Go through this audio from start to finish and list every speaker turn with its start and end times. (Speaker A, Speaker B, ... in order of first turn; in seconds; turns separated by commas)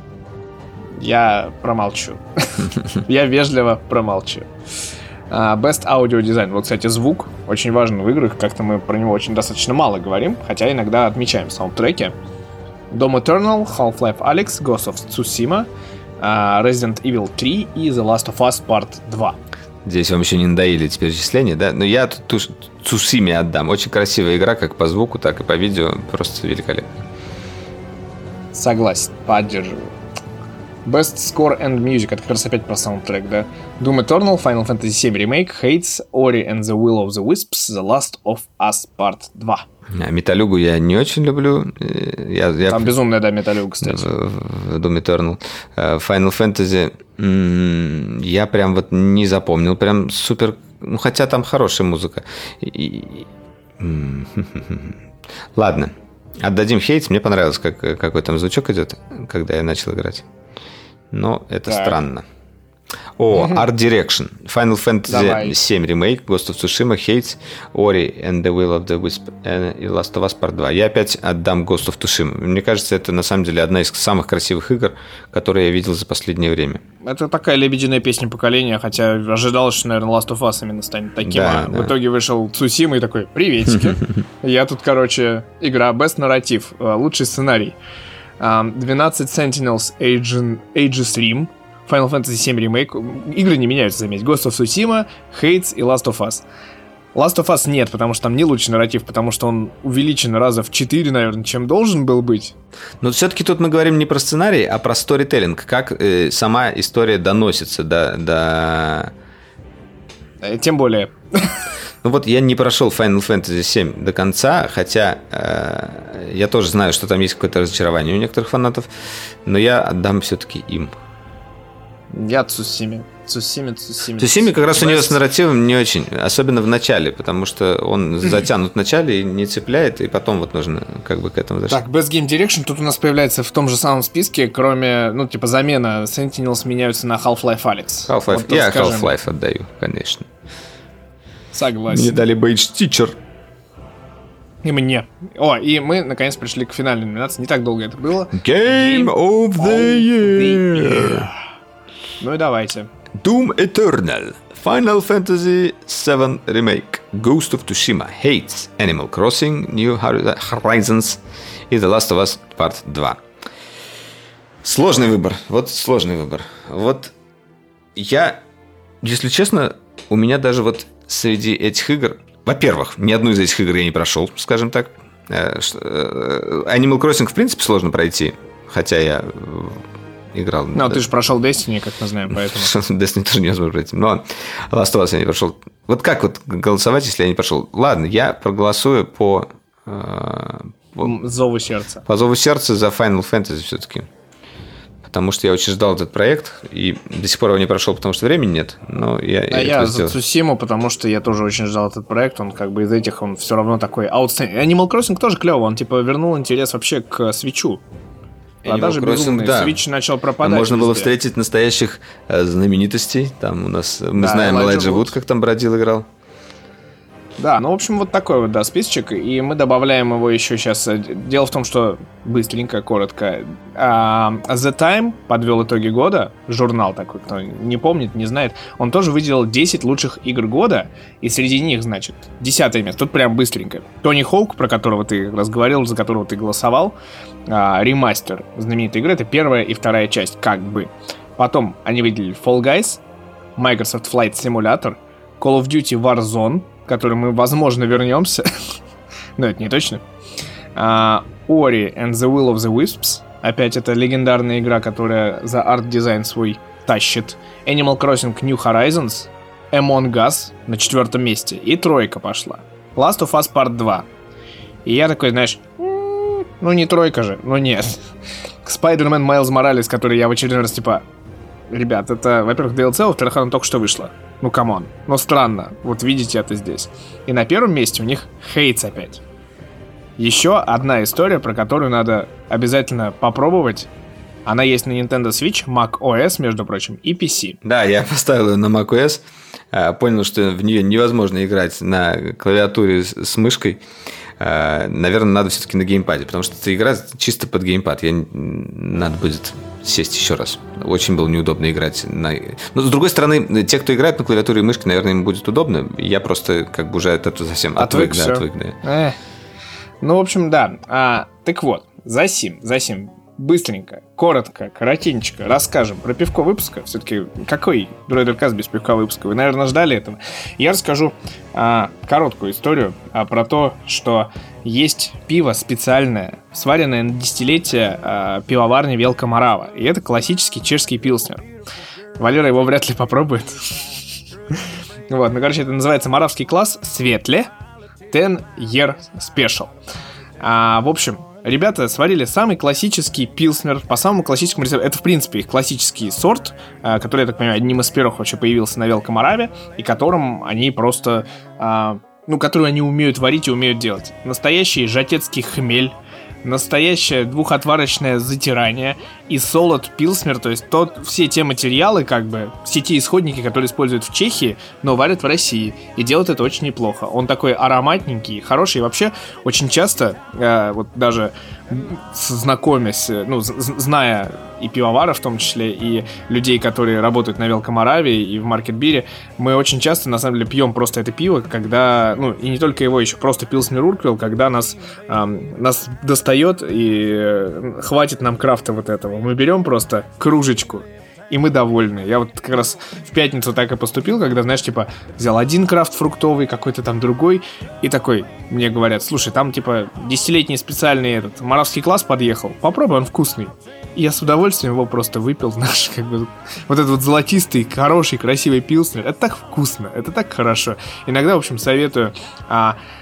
Speaker A: 1.0-4.5, Speaker A: 5.3-12.2, Speaker A: 12.9-15.7, Speaker A: 16.2-19.4, Speaker B: 19.9-27.1, Speaker A: 28.5-29.9, Speaker A: 30.9-39.7, Speaker B: 40.0-42.9, Speaker A: 42.7-44.1, Speaker B: 43.8-53.3, Speaker B: 53.8-55.0, Speaker B: 55.5-60.2, Speaker B: 61.1-62.2, Speaker A: 61.7-62.0, Speaker B: 63.2-76.8, Speaker A: 65.1-65.6, Speaker A: 77.0-87.8, Speaker B: 81.2-82.0, Speaker A: 88.4-96.5, Speaker A: 97.2-102.5, Speaker B: 103.0-109.1, Speaker A: 110.4-111.6, Speaker B: 112.0-118.9, Speaker B: 119.5-120.9, Speaker A: 122.1-125.2, Speaker B: 124.2-131.8, Speaker A: 131.7-139.1, Speaker B: 138.1-140.3, Speaker A: 141.5-142.2, Speaker B: 141.9-143.2, Speaker A: 144.6-151.4, Speaker B: 148.3-151.3, Speaker A: 152.2-152.9, Speaker B: 153.2-163.2, Speaker B: 164.6-167.1, Speaker B: 168.0-168.4, Speaker B: 169.0-181.1, Speaker A: 180.7-182.7, Speaker B: 182.4-191.2, Speaker A: 191.0-192.1, Speaker B: 192.1-194.1, Speaker B: 195.0-200.2, Speaker A: 199.5-207.8, Speaker A: 208.6-211.1, Speaker B: 208.7-209.8, Speaker B: 210.4-216.1, Speaker A: 214.2-215.2, Speaker A: 217.4-243.0, Speaker A: 243.6-248.5, Speaker A: 249.4-250.0, Speaker A: 250.8-264.1, Speaker A: 264.9-268.0, Speaker A: 268.6-271.0, Speaker A: 271.7-279.2, Speaker A: 280.2-283.9, Speaker A: 284.4-287.6, Speaker B: 287.6-293.8, Speaker B: 294.4-308.8, Speaker A: 307.8-309.2, Speaker A: 310.0-331.5, Speaker A: 332.2-333.9, Speaker A: 335.1-337.5, Speaker A: 338.1-339.7, Speaker A: 340.4-412.8